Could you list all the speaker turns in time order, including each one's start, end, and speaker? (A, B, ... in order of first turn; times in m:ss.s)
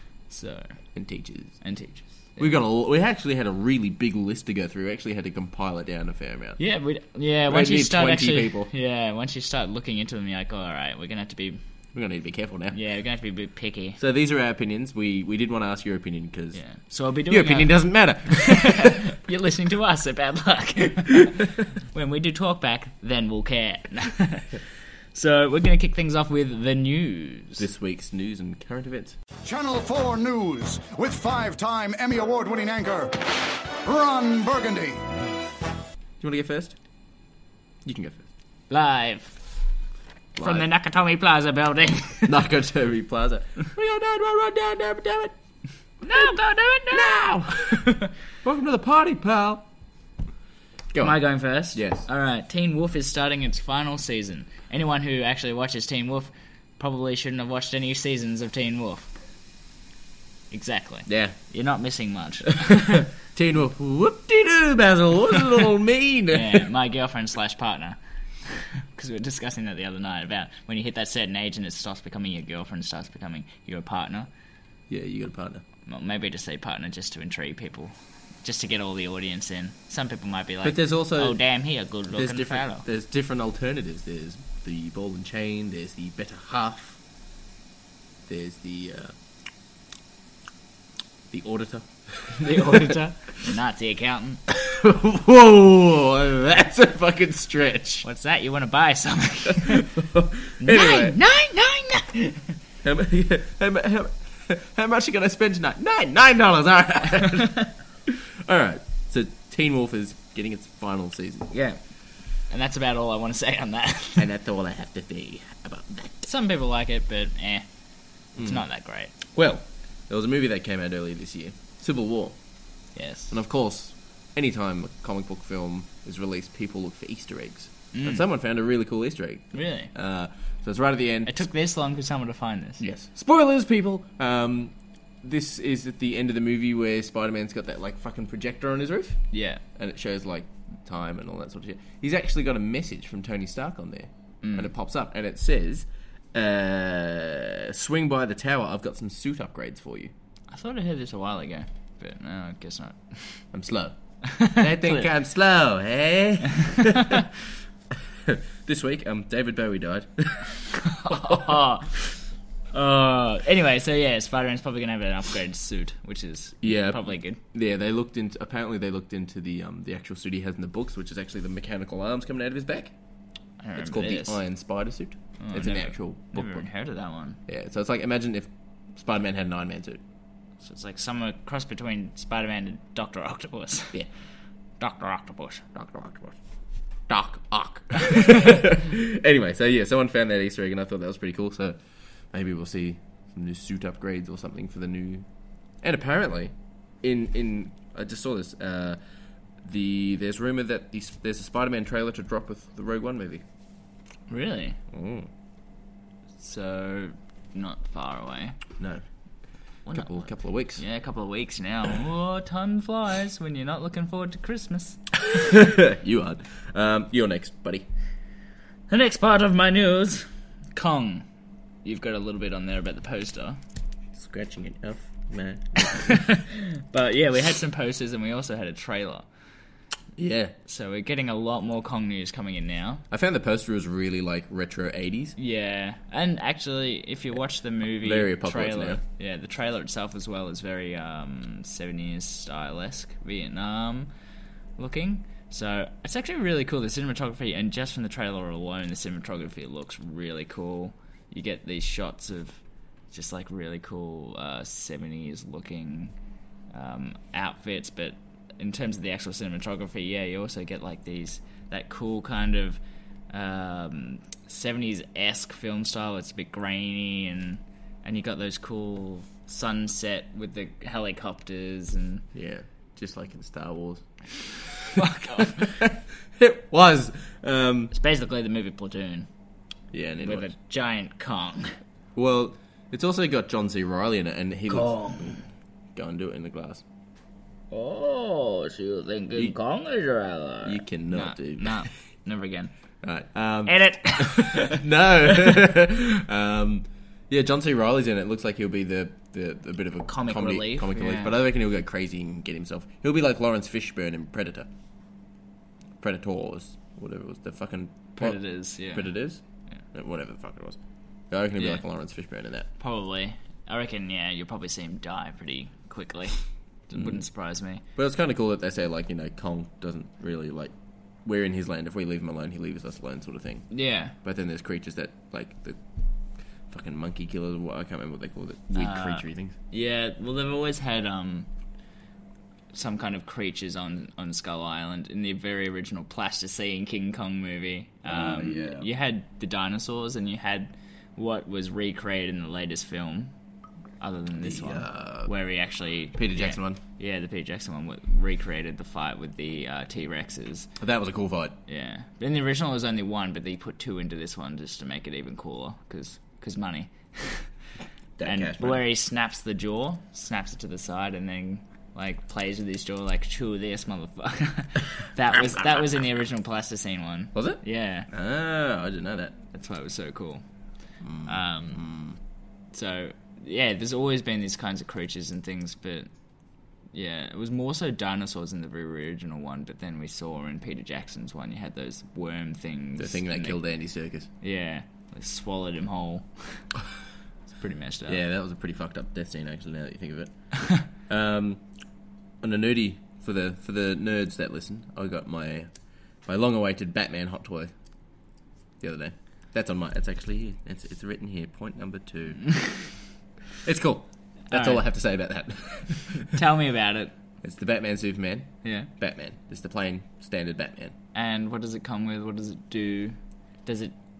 0:00.3-0:00.7 A
0:00.9-0:01.6 B
0:01.6-0:02.5 A
0:02.4-0:06.6 B
0:06.6-0:11.6 A
0:07.4-0:08.7 B
0:11.9-0:12.8 B
0:12.7-0:14.0 A
0:14.0-0:16.6 B
0:16.5-0:24.6 A
0:17.3-0:18.9 B
0:25.1-0:27.7 A
0:27.6-0:29.2 B
0:29.4-0:35.0 C
0:36.2-0:36.7 B
0:37.8-0:38.2 B
0:38.7-0:39.4 A
0:40.4-0:40.6 B
0:40.4-0:42.4 A
0:42.2-0:45.3 B
0:46.0-0:47.2 A
0:46.0-0:46.3 B
0:46.9-0:49.6 B
0:47.7-0:48.1 A
0:50.9-0:52.1 B
0:51.0-0:59.1 A
1:00.5-1:03.1 A
1:01.1-1:01.4 B
1:02.7-1:06.7 B
1:06.3-1:14.3 A
1:14.9-1:15.6 B
1:15.8-1:22.8 A
1:20.6-1:21.4 B
1:22.1-1:27.0 B
1:28.2-1:29.1 B
1:31.3-1:33.0 B
1:32.3-1:34.4 A
1:34.5-1:38.0 B
1:38.0-1:39.9 A
1:39.5-1:41.2 B
1:40.6-1:42.5 A
1:42.8-1:51.5 B
1:51.5-1:51.8 A
1:52.5-1:54.3 A
1:54.2-1:56.3 B
1:56.2-1:57.6 A
1:58.4-1:58.6 B
1:58.4-1:59.1 A
1:59.3-2:02.4 B
2:03.0-2:03.4 A
2:03.3-2:11.4 B
2:07.9-2:08.2 A
2:09.5-2:09.9 A
2:11.2-2:12.9 A
2:12.8-2:19.2 B
2:19.3-2:19.6 A
2:19.8-2:30.1 B
2:24.4-2:24.7 A
2:30.5-2:33.4 A
2:33.5-2:37.3 B
2:34.2-2:35.0 A
2:37.9-2:41.6 B
2:40.7-2:42.0 A
2:42.7-2:47.4 A
2:46.6-2:52.9 B
2:53.6-2:54.4 A
2:53.8-2:56.7 B
2:55.4-2:57.4 A
2:57.5-3:00.0 B
3:00.6-3:04.0 A
3:04.8-3:05.6 A
3:05.7-3:06.4 B
3:07.1-3:11.8 B
3:12.3-3:15.2 B
3:15.8-3:19.0 B
3:19.6-3:23.4 B
3:24.3-3:24.8 A
3:24.9-3:25.3 B
3:26.4-3:28.6 A
3:29.9-3:35.0 A
3:29.9-3:30.8 B
3:35.2-3:37.8 B
3:38.9-3:41.2 A
3:41.8-3:43.6 A
3:44.1-3:46.2 B
3:45.8-3:49.3 A
3:50.2-3:50.5 B
3:50.6-3:53.0 A
3:53.1-3:55.4 B
3:55.4-4:04.1 A
3:58.0-3:59.0 B
4:04.8-4:16.1 A
4:16.7-4:32.2 A
4:32.3-4:37.9 B
4:35.0-4:35.7 A
4:37.9-4:39.3 A
4:39.9-4:40.5 B
4:40.2-4:41.8 A
4:42.2-4:45.4 B
4:44.7-4:45.4 A
4:45.9-4:46.8 B
4:47.7-4:52.7 A
4:50.6-4:51.8 B
4:53.0-5:04.7 B
4:53.6-4:54.8 A
5:00.0-5:01.4 A
5:06.0-5:09.4 B
5:08.2-5:09.1 A
5:09.9-5:10.8 B
5:11.3-5:12.7 B
5:11.6-5:11.8 A
5:12.8-5:17.8 A
5:16.9-5:17.2 B
5:18.0-5:23.7 B
5:23.7-5:24.1 A
5:24.2-5:25.8 B
5:26.7-5:29.6 B
5:28.7-5:31.5 A
5:32.7-5:43.3 A
5:38.0-5:38.9 B
5:44.0-5:50.7 A
5:44.4-5:45.3 B
5:46.1-5:46.8 B
5:50.8-5:51.6 B
5:51.7-5:57.5 A
5:58.2-5:58.8 B
5:58.2-6:08.1 A
6:05.3-6:05.9 B
6:07.3-6:09.4 B
6:09.5-6:10.4 A
6:11.0-6:12.2 B
6:11.2-6:11.8 A
6:12.7-6:16.1 A
6:16.9-6:23.6 A
6:23.0-6:24.3 B
6:24.4-6:26.7 A
6:27.5-6:28.2 A
6:28.0-6:31.6 B
6:32.4-6:35.7 B
6:36.2-6:37.7 B
6:38.8-6:42.8 B
6:43.6-6:46.3 B
6:44.5-6:44.8 A
6:46.3-6:47.1 A
6:47.4-6:50.9 B
6:48.6-6:48.9 A
6:51.1-6:53.9 A